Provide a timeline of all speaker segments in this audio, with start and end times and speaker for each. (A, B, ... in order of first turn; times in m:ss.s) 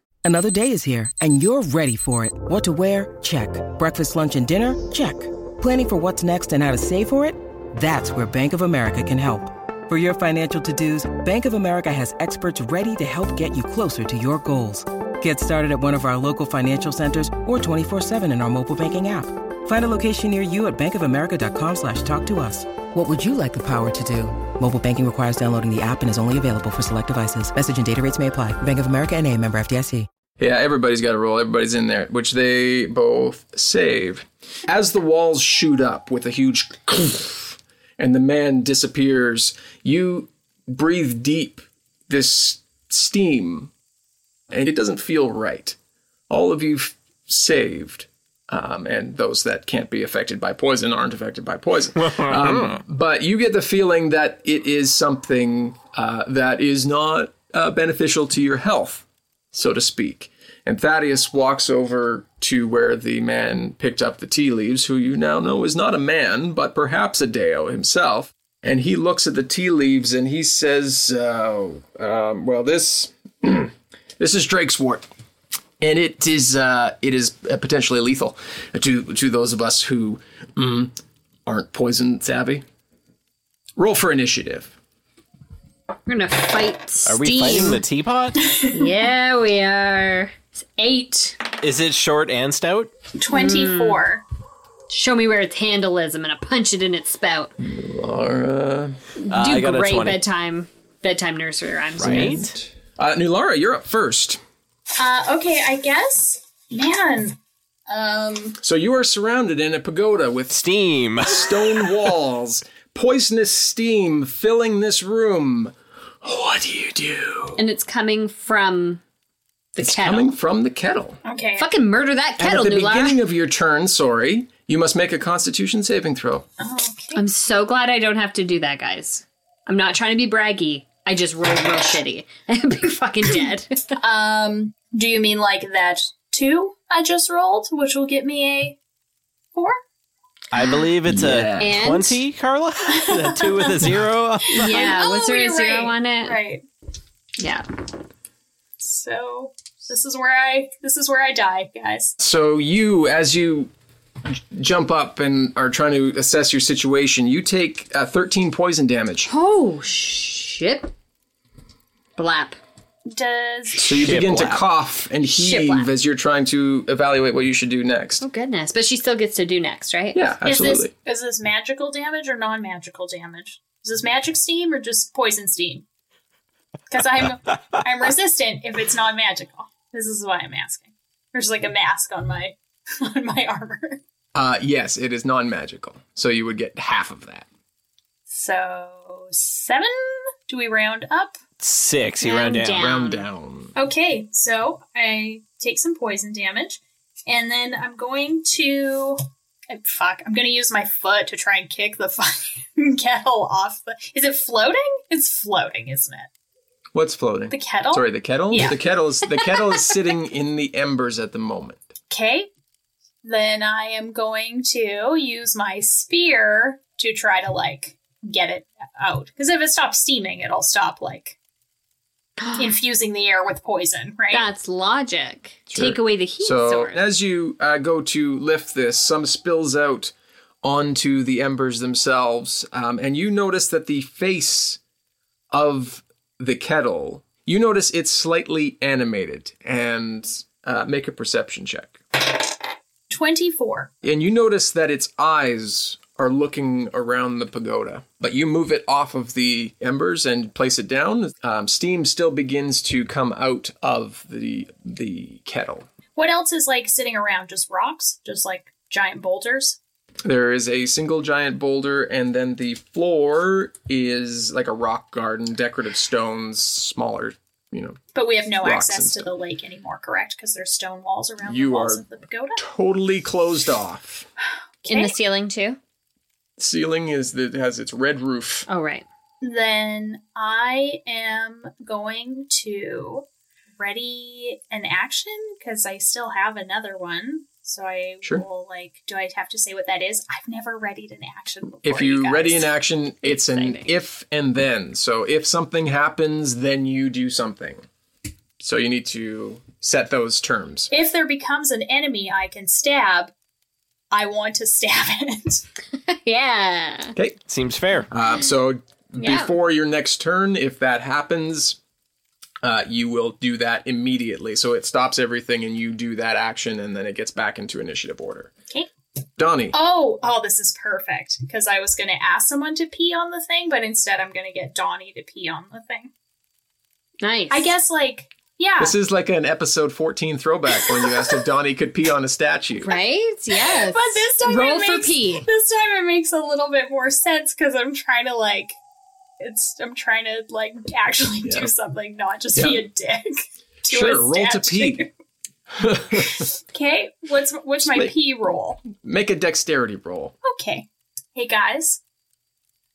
0:00.2-0:30.1 A
0:30.4-0:43.7 B
0:44.5-0:45.8 B
0:46.3-1:15.1 B
0:52.0-0:52.8 C
1:15.8-1:20.9 B
1:21.4-1:22.6 B
1:23.8-1:24.7 B
1:26.1-1:27.8 D
1:27.0-1:28.4 C
1:28.4-1:28.8 E
1:28.7-1:31.4 D
1:31.6-1:32.9 C
1:33.2-1:34.2 E
1:33.3-1:34.0 D
1:34.9-1:37.5 D
1:37.6-1:39.0 B
1:39.2-1:42.4 D
1:39.3-1:40.2 C
1:42.0-1:44.4 B
1:42.0-1:42.5 C
1:45.0-1:47.4 E
1:47.9-1:48.6 E
1:48.6-1:50.6 B
1:50.5-1:51.4 C
1:51.2-1:57.6 B
1:57.6-1:59.0 D
1:59.7-2:00.3 D
1:59.8-2:01.2 B
2:01.2-2:01.7 E
2:01.6-2:03.2 D
2:02.4-2:06.4 B
2:06.6-2:07.2 E
2:07.1-2:13.9 D
2:14.0-2:18.8 E
2:19.5-2:19.8 E
2:20.5-2:24.8 C
2:21.0-2:21.7 B
2:21.6-2:22.2 D
2:22.9-2:23.9 E
2:24.5-2:26.6 E
2:24.5-2:26.4 D
2:27.4-2:27.6 D
2:28.8-2:32.2 E
2:32.2-2:33.7 B
2:34.3-2:39.3 B
2:39.3-2:40.9 D
2:42.2-2:42.6 D
2:43.1-2:44.0 E
2:43.8-2:48.2 B
2:43.8-2:44.6 C
2:45.2-2:45.9 D
2:48.2-2:50.2 D
2:50.1-2:50.9 B
2:50.4-2:55.8 E
2:56.9-3:04.0 E
3:04.3-3:07.5 B
3:08.3-3:11.4 E
3:11.6-3:12.9 C
3:12.2-3:13.3 D
3:12.8-3:13.7 B
3:13.7-3:19.2 E
3:19.7-3:26.3 E
3:26.9-3:31.9 B
3:27.5-3:28.8 E
3:29.4-3:29.9 E
3:32.1-3:32.5 E
3:33.2-3:41.4 E
3:42.5-3:44.5 E
3:44.3-3:47.0 D
3:45.7-3:54.8 B
3:55.5-4:02.0 B
4:03.1-4:03.9 E
4:04.0-4:15.9 B
4:16.2-4:19.8 E
4:20.2-4:28.0 B
4:28.1-4:32.6 E
4:28.6-4:29.3 B
4:31.4-4:32.0 B
4:32.6-4:34.3 B
4:34.8-4:35.1 E
4:34.9-4:35.8 D
4:36.6-4:38.7 B
4:38.7-4:39.0 D
4:39.4-4:43.2 E
4:43.8-4:52.7 E
4:51.8-4:57.8 B
4:53.2-4:53.9 D
4:58.6-5:00.9 B
5:00.9-5:03.3 E
5:04.1-5:05.6 E
5:06.1-5:07.2 D
5:07.5-5:08.1 C
5:08.1-5:11.8 B
5:09.2-5:09.5 D
5:12.6-5:18.5 B
5:19.4-5:19.7 B
5:19.7-5:26.1 E
5:27.2-5:27.7 D
5:27.5-5:28.9 E
5:28.8-5:32.9 B
5:30.8-5:31.2 E
5:32.8-5:35.5 D
5:33.5-5:38.8 E
5:39.4-5:45.1 E
5:41.4-5:41.7 B
5:42.5-5:42.8 B
5:43.9-5:45.0 B
5:45.8-5:46.5 B
5:46.3-5:48.8 E
5:48.8-5:50.4 B
5:50.4-5:52.0 E